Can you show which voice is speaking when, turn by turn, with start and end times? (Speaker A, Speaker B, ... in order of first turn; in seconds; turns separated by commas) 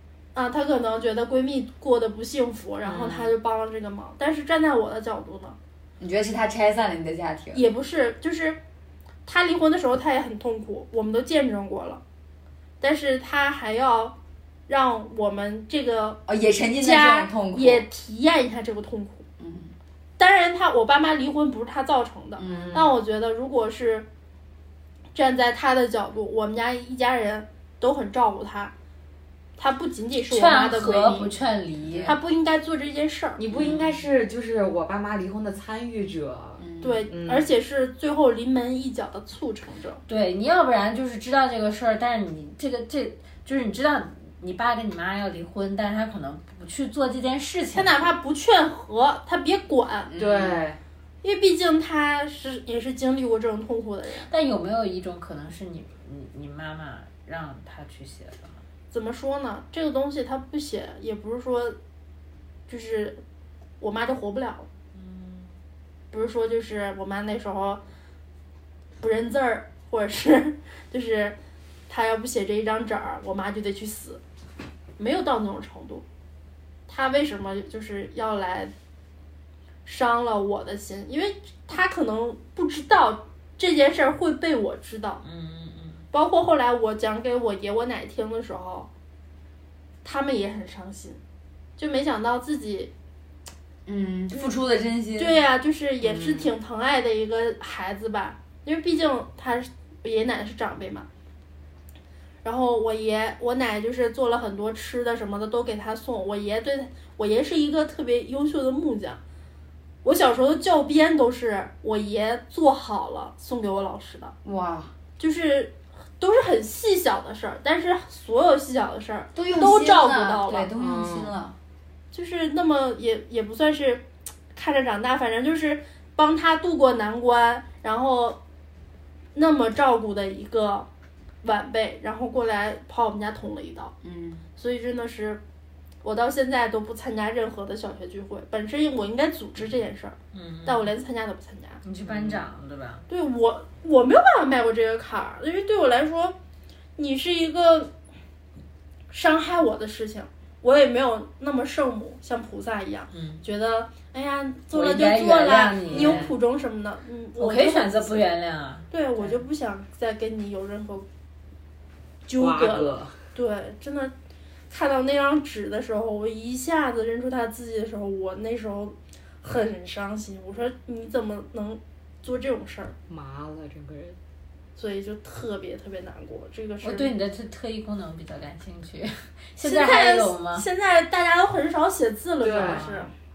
Speaker A: 0.3-5.6, Speaker B: 2.9-3.2, Speaker C: 6.0-7.6, Speaker A: 7.5-8.6, Speaker A: 9.2-12.0, Speaker A: 12.8-14.1, Speaker A: 14.7-16.2, Speaker C: 16.3-17.8, Speaker A: 16.8-19.2, Speaker C: 19.4-19.7, Speaker A: 20.2-24.1, Speaker C: 22.4-22.9, Speaker A: 25.1-28.7, Speaker A: 29.6-31.3, Speaker D: 30.3-32.2, Speaker A: 32.0-33.4, Speaker B: 33.4-37.5, Speaker C: 33.5-34.0, Speaker C: 36.6-37.0, Speaker A: 36.8-40.0, Speaker D: 40.1-48.1, Speaker A: 47.7-50.1, Speaker C: 50.1-50.6, Speaker B: 50.2-50.8, Speaker A: 51.2-54.3, Speaker D: 54.2-58.6, Speaker A: 58.9-61.8, Speaker A: 62.7-63.2, Speaker A: 63.8-64.7, Speaker D: 64.9-65.5, Speaker A: 66.1-67.8, Speaker A: 69.0-71.3, Speaker A: 71.9-74.2, Speaker A: 75.0-76.0, Speaker A: 76.9-78.7, Speaker A: 79.8-85.2, Speaker D: 85.2-86.0, Speaker A: 86.1-88.9, Speaker A: 90.0-91.2, Speaker A: 91.8-92.9, Speaker C: 93.8-95.4, Speaker A: 95.2-101.1, Speaker B: 96.0-96.5, Speaker A: 102.4-109.2, Speaker A: 110.0-114.3, Speaker C: 114.4-114.9, Speaker A: 115.2-120.7, Speaker C: 119.3-121.5, Speaker B: 120.8-121.3, Speaker A: 122.1-128.4, Speaker A: 129.3-130.9, Speaker A: 131.4-133.9, Speaker C: 134.0-134.4, Speaker A: 134.6-135.4, Speaker A: 136.0-141.8, Speaker D: 140.3-140.9, Speaker D: 141.8-143.1, Speaker B: 142.1-142.4, Speaker A: 143.1-146.3, Speaker A: 146.9-147.9, Speaker A: 149.1-158.3, Speaker D: 153.1-153.4, Speaker D: 154.7-156.3, Speaker B: 155.9-156.3, Speaker D: 157.3-159.4, Speaker A: 158.9-161.1, Speaker A: 162.3-164.1, Speaker B: 162.3-163.2, Speaker A: 164.7-172.9, Speaker B: 173.1-174.2, Speaker A: 174.8-177.1, Speaker D: 176.8-180.7, Speaker A: 179.6-183.1, Speaker B: 182.4-183.1, Speaker D: 182.7-183.1